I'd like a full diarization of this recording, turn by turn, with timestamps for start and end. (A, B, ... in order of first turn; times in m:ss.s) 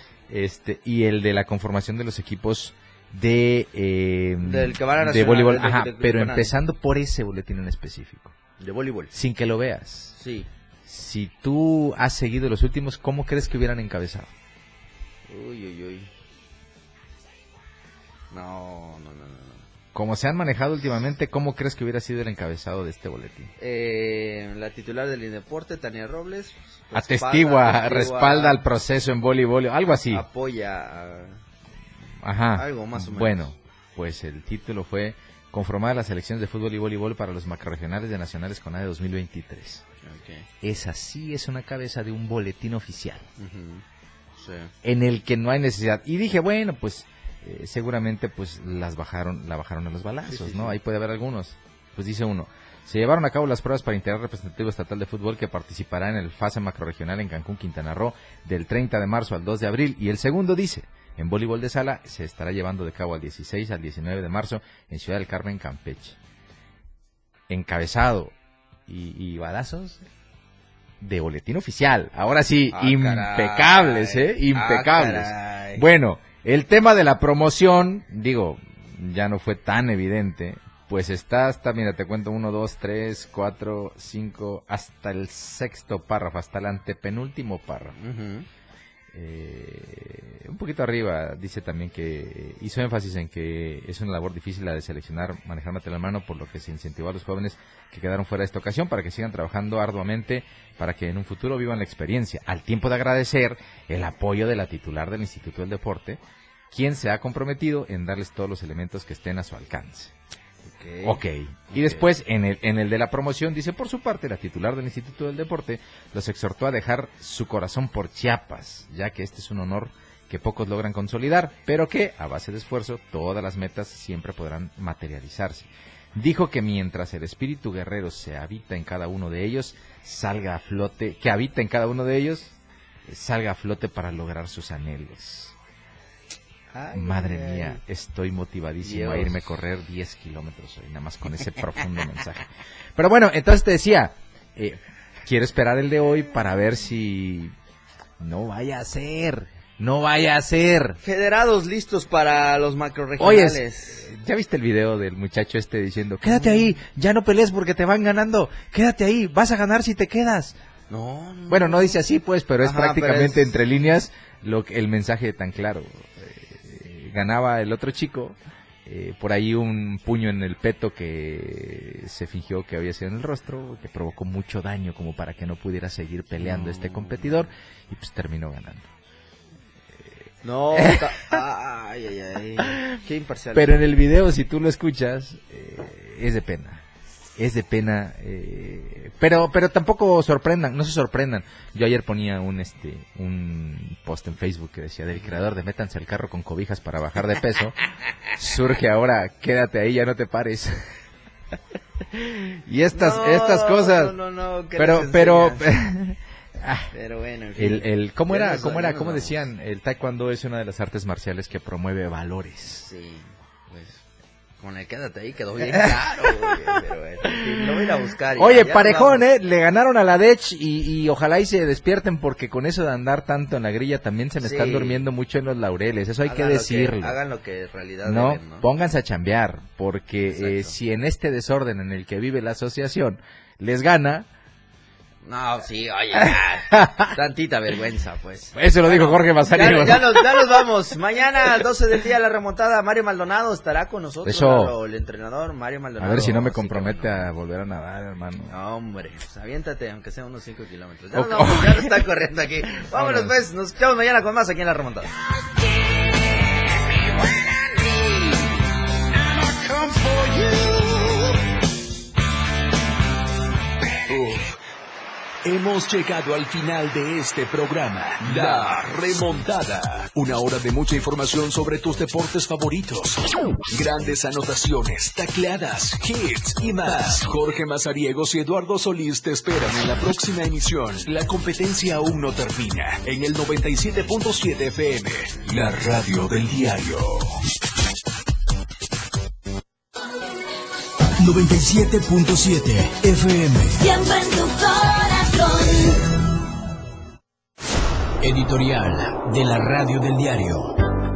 0:00.3-0:08.3 A
0:04.4-0:06.6 B
0:08.6-0:09.1 B
0:09.1-0:10.2 A
0:10.1-0:10.5 B
0:10.9-0:14.3 A
0:15.3-0:16.1 B
0:18.3-0:19.7 B
0:19.9-0:23.5 A
0:23.6-0:28.6 B
0:26.9-0:30.2 A
0:30.1-0:31.4 B
0:32.2-0:39.8 A
0:32.6-0:33.5 B
0:40.0-0:40.5 B
0:40.6-0:43.3 A
0:43.4-0:43.8 B
0:44.4-0:44.7 B
0:44.8-1:06.2 A
0:50.3-0:50.8 B
1:07.5-1:08.3 A
1:08.9-1:10.0 A
1:11.0-1:28.0 A
1:12.7-1:15.9 B
1:28.0-1:28.5 B
1:29.1-1:46.2 A
1:46.7-1:50.1 A
1:50.6-1:52.1 B
1:51.0-2:12.6 A
2:13.1-2:15.5 A
2:16.7-2:17.8 B
2:16.9-2:27.5 A
2:18.8-2:19.5 B
2:28.2-2:31.0 A
2:31.0-2:34.1 B
2:33.2-2:40.6 A
2:36.2-2:36.8 B
2:40.9-2:42.0 B
2:41.5-2:58.9 A
2:42.6-2:43.6 B
2:56.4-2:57.5 B
3:00.4-3:03.9 B
3:00.8-3:01.1 A
3:03.5-3:06.8 A
3:07.4-3:17.8 A
3:15.1-3:15.5 B
3:18.4-3:20.8 A
3:22.1-3:24.1 A
3:22.9-3:25.7 B
3:24.8-3:26.9 A
3:26.9-3:29.5 B
3:27.6-3:32.9 A
3:32.8-3:34.0 B
3:34.6-3:39.3 B
3:37.3-3:37.8 A
3:38.4-3:47.2 A
3:44.4-3:45.1 B
3:46.2-3:48.7 B
3:48.0-3:54.3 A
3:50.3-3:50.8 B
3:55.2-4:07.3 B
3:56.7-3:57.1 A
3:58.6-4:00.4 A
4:04.2-4:04.7 A
4:06.0-4:08.5 A
4:08.5-4:15.1 B
4:11.2-4:12.0 A
4:12.7-4:13.3 A
4:19.5-4:20.8 B
4:24.1-4:24.5 C
4:25.4-4:47.4 C
4:51.2-4:53.8 D
4:53.8-4:56.0 E
4:58.2-5:00.8 D